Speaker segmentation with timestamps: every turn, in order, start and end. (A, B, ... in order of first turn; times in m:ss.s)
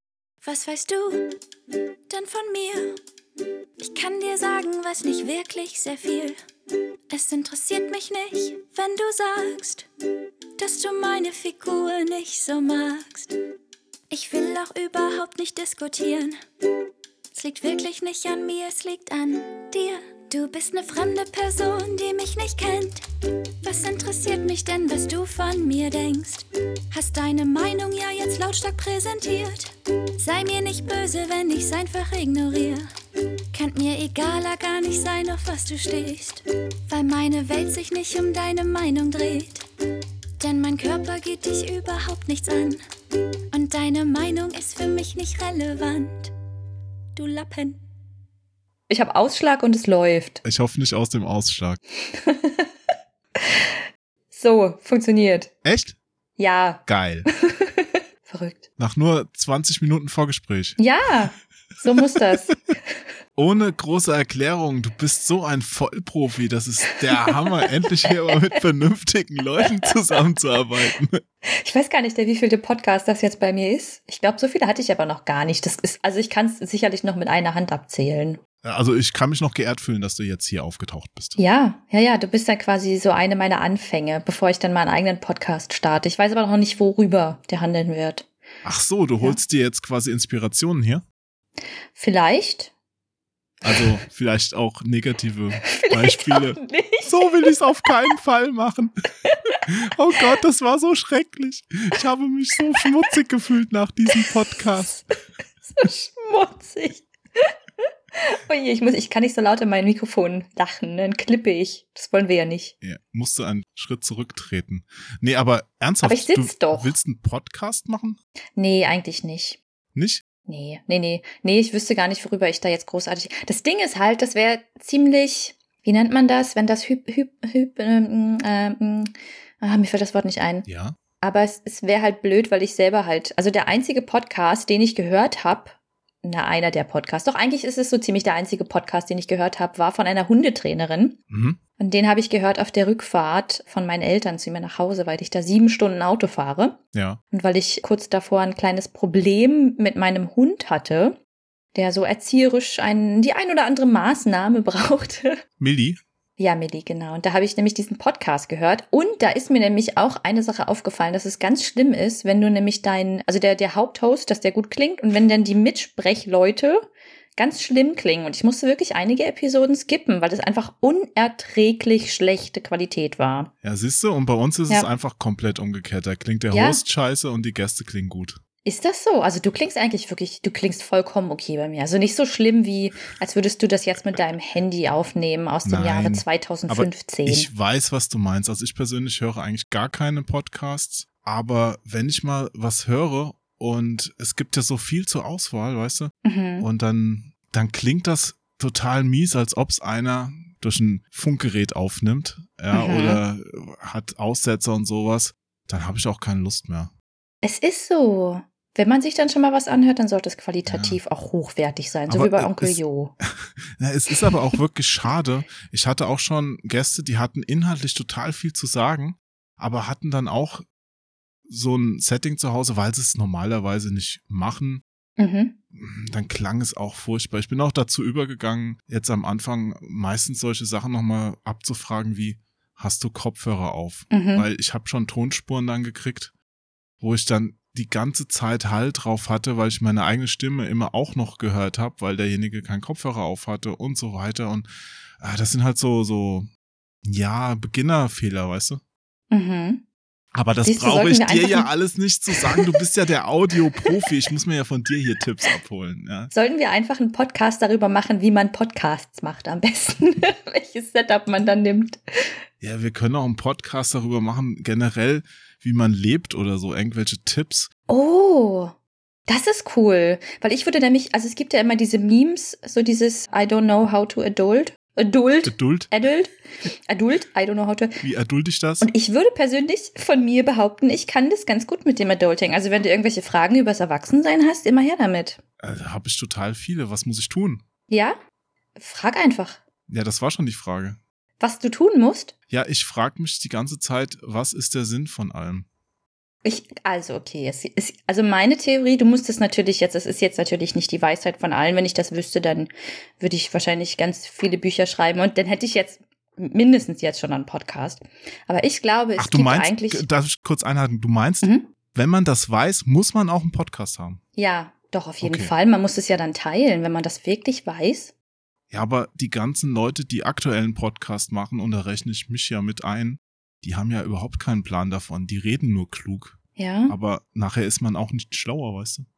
0:00.4-0:01.3 A
0:02.1-0:03.0 A
0:03.8-0:06.4 A
0:07.1-0:09.9 A
0:10.6-0:13.3 A
0:14.1-0:16.4 A
0:17.3-0:23.1 A
0:23.6-0:32.9 A
0:33.5-0:39.6 A
0:40.4-0:42.8 A
0:43.5-0:46.3 A
0:47.2-0:47.8 A
0:48.9-0:50.4 B
0:50.4-0:51.8 C
0:52.0-0:52.7 B
0:53.4-0:55.5 B
0:55.6-0:56.0 C
0:56.4-0:58.7 B
0:56.9-0:57.3 C
0:58.8-1:00.8 C
1:00.8-1:03.0 B
1:03.4-1:11.2 C
1:11.4-1:18.4 B
1:18.6-1:21.4 C
1:21.4-1:28.3 B
1:28.6-1:31.0 C
1:31.9-1:32.7 B
1:33.6-1:38.9 C
1:35.7-1:37.4 B
1:39.7-1:45.0 C
1:44.1-1:45.0 B
1:45.7-1:47.5 B
1:48.2-1:52.7 B
1:52.8-1:58.2 C
1:56.0-1:57.0 B
1:58.6-1:59.6 B
2:00.0-2:00.2 C
2:00.5-2:10.7 B
2:10.7-2:11.0 C
2:11.2-2:21.2 B
2:21.3-2:21.6 C
2:21.8-2:26.8 B
2:26.9-2:27.2 C
2:27.3-2:31.2 B
2:31.7-2:35.4 B
2:35.6-2:36.0 C
2:36.4-2:53.5 B
2:53.6-2:58.4 C
2:56.5-2:56.8 B
2:58.6-3:07.5 B
3:05.6-3:26.9 C
3:16.2-3:16.7 B
3:22.7-3:23.2 B
3:27.4-3:33.1 B
3:30.7-3:31.0 C
3:32.1-3:40.7 C
3:41.5-3:44.8 C
3:45.2-3:45.6 B
3:45.7-3:56.3 C
3:54.1-3:54.5 B
3:57.0-4:04.7 C
4:05.2-4:06.5 C
4:07.0-4:08.8 C
4:09.3-4:09.8 B
4:10.3-4:16.3 C
4:10.6-4:11.7 B
4:12.3-4:12.8 B
4:16.3-4:22.4 B
4:22.6-4:27.7 C
4:27.9-4:28.7 B
4:29.3-4:36.3 B
4:35.4-4:35.9 C
4:36.9-4:38.0 B
4:38.0-4:38.9 C
4:38.8-4:45.4 B
4:45.6-4:47.6 C
4:47.9-4:48.2 B
4:48.8-4:49.6 B
4:49.9-4:51.0 C
4:51.4-4:52.3 B
4:52.5-4:55.7 C
4:56.4-5:10.1 B
5:09.2-5:14.2 C
5:11.4-5:11.7 B
5:14.4-5:18.1 B
5:15.2-5:15.5 C
5:18.7-5:29.1 C
5:26.6-5:27.0 B